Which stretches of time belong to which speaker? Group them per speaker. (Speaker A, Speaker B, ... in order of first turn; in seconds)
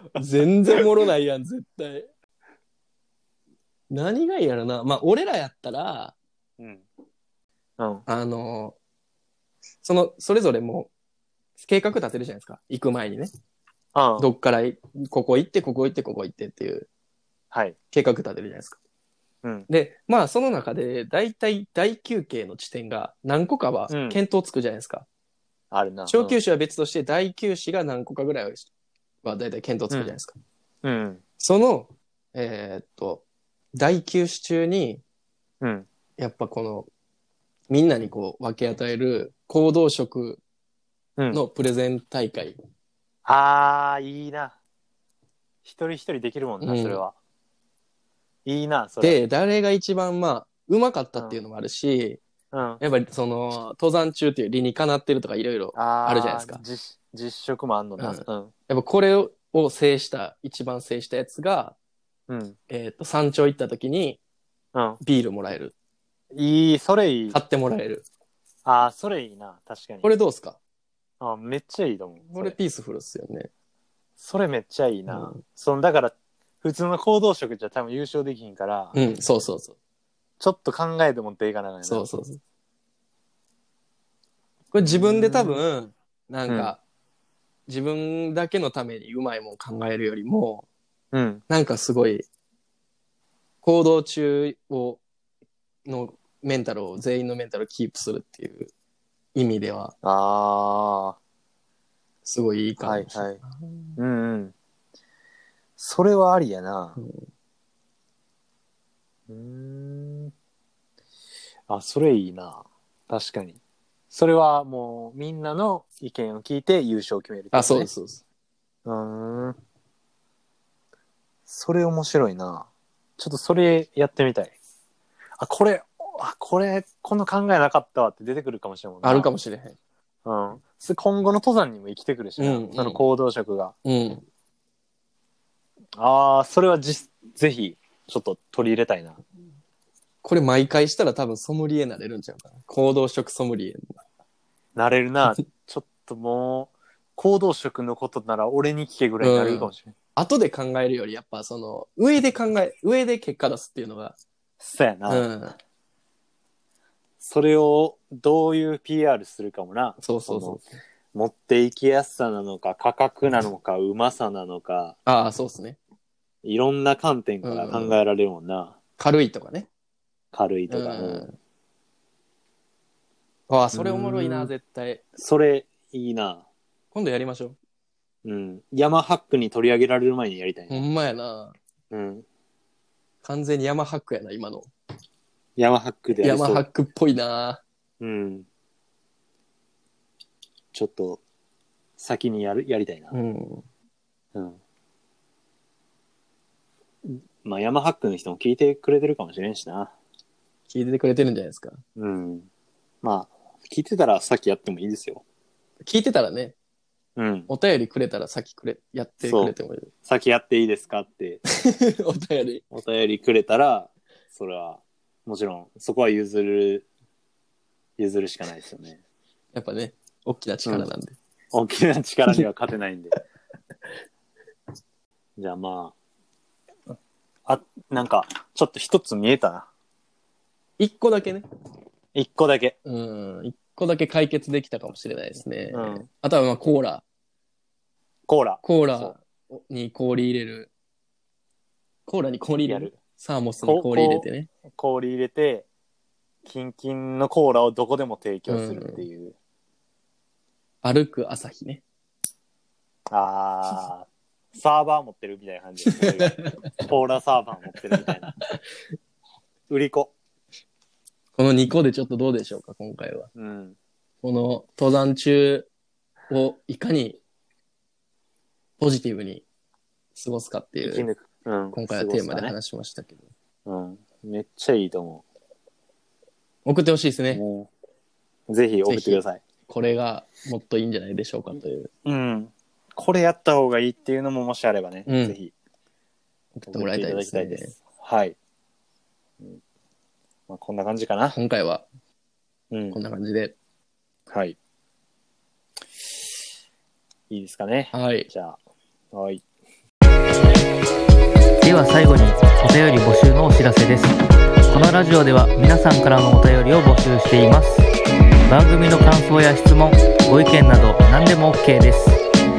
Speaker A: 0.1-2.1, 3.9-6.2, 8.1-8.8, 9.8-10.9, 11.6-13.3, 14.2-16.9, 17.9-18.8, 19.7-25.1, 26.1-28.7, 29.2-30.3, 31.4-35.0, 36.2-36.9, 37.7-40.4, 41.3-42.5, 46.6-47.0, 49.0-52.2, 52.8-56.6, 58.0-61.8, 62.7-64.2, 65.0-65.7, 67.3-68.0, 70.0-70.6, 72.3-73.5, 75.1-75.4, 78.9-79.8, 81.8-82.4, 84.7-86.8, 87.7-90.7, 91.5-92.3, 93.6-95.0, 95.9-98.7, 99.3-100.0, 102.2-104.0, 107.0-107.3, 117.5-118.2, 129.0-129.8, 132.4-133.0, 133.8-134.2, 140.2-143.9, 149.2-154.2, 155.1-155.6, 160.0-160.7, 165.1-165.8, 167.4-168.0, 169.0-169.7, 170.7-171.4, 173.5-175.0, 176.9-177.6, 180.7-181.6, 183.2-184.7, 186.2-187.6, 193.1-193.7, 200.7-201.8, 205.8-206.6, 207.5-209.9, 211.6-212.6, 219.5-221.2, 230.8-231.4, 232.8-237.0, 238.6-240.7, 242.1-244.5, 248.5-249.0, 250.8-251.8, 255.8-256.8, 258.0-258.6, 261.4-263.3, 264.2-265.7, 266.3-267.2, 268.8-269.4, 270.2-271.1, 271.7-273.2, 276.7-277.4, 278.9-281.9, 285.1-285.4, 286.6-287.8, 291.3-291.9, 292.9-293.6, 297.9-298.3
Speaker B: 6.6-6.8, 7.8-8.0, 13.9-14.3, 17.5-17.8, 19.4-19.7, 23.9-24.2, 25.7-26.4, 29.9-30.2, 30.8-31.2, 35.6-35.9, 41.2-41.4, 43.2-44.6, 45.6-47.1, 48.5-49.2, 52.5-52.8, 55.8-58.5, 62.3-62.6, 64.7-65.0, 66.3-67.4, 68.7-70.1, 71.2-72.6, 74.2-79.0, 80.4-82.0, 84.9-85.6, 86.5-86.7, 91.1-91.4, 100.0-101.2, 102.8-103.4, 104.0-104.5, 105.8-107.0, 109.3-110.3, 111.7-113.6, 114.1-117.9, 118.8-119.6, 121.5-124.6, 125.4-129.3, 130.2-133.7, 136.0-139.2, 144.8-149.9, 154.6-155.3, 157.2-160.6, 161.1-165.0, 166.4-168.8, 170.3-171.3, 173.7-174.5, 175.2-176.5, 178.2-180.9, 181.9-182.2, 185.6-186.7, 188.0-188.5, 190.7-191.2, 192.0-193.1, 194.3-194.6, 197.0-199.9, 202.0-202.5, 203.0-205.2, 207.2-207.5, 209.2-209.5, 210.1-211.4, 212.7-216.9, 218.0-219.0, 221.5-223.1, 225.4-225.9, 227.5-229.7, 232.2-232.8, 235.7-236.1, 238.3-239.2, 242.7-243.0, 243.6-245.7, 246.4-249.3, 253.1-258.3, 259.7-260.1, 263.4-263.8, 270.8-272.6, 273.6-275.2, 277.3-277.7, 278.5-279.4, 282.1-285.5, 286.7-288.4, 290.5-291.4, 292.7-293.0, 294.3-294.6, 297.3-298.6, 299.1-299.4
Speaker C: 301.6-307.9, 308.5-312.2